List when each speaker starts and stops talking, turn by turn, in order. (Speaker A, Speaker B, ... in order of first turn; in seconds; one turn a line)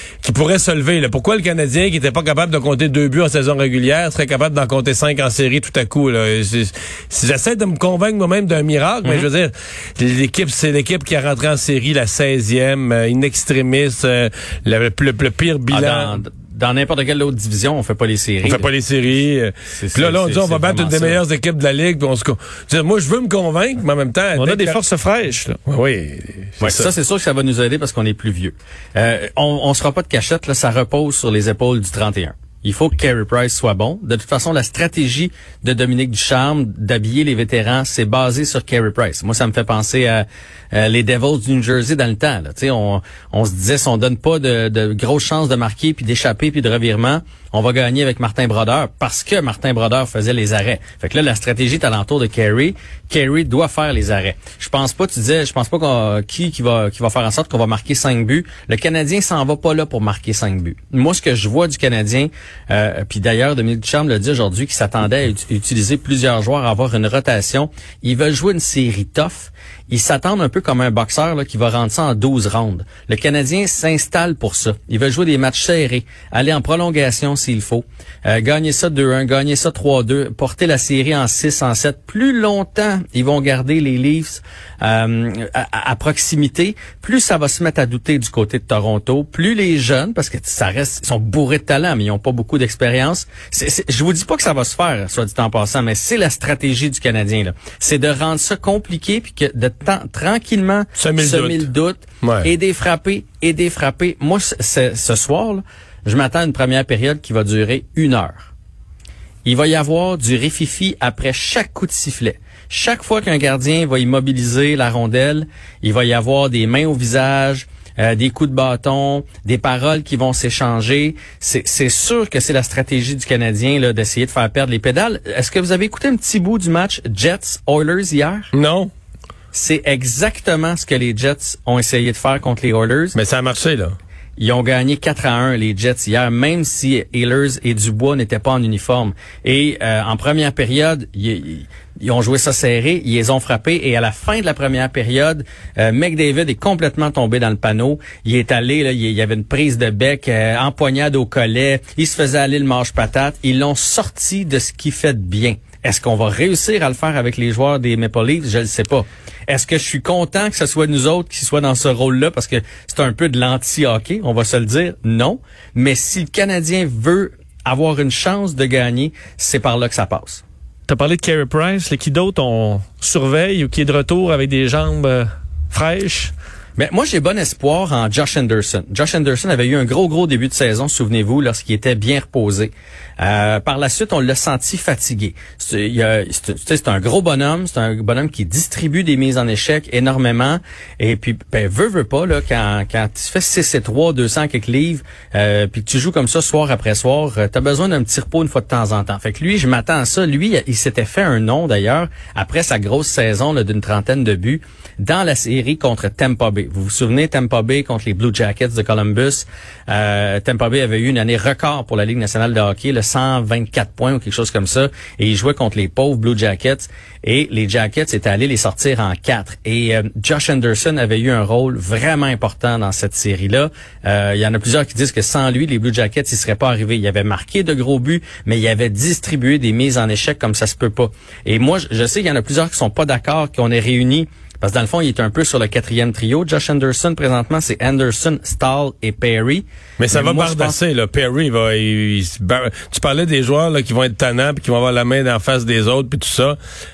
Speaker A: 0.2-16.2
Speaker B: 15.7-18.7
Speaker A: 18.4-24.8
Speaker B: 19.7-21.2
Speaker C: 24.4-25.6
Speaker A: 25.6-26.9
Speaker B: 26.6-108.5
Speaker A: 101.0-101.7
Speaker A: 102.2-102.5
Speaker B: 109.4-128.5
Speaker A: 128.5-128.9
Speaker B: 129.5-133.2
Speaker A: 133.1-133.9
Speaker B: 134.4-170.4
Speaker C: 170.9-176.3
Speaker B: 176.8-240.8
Speaker A: 240.0-246.6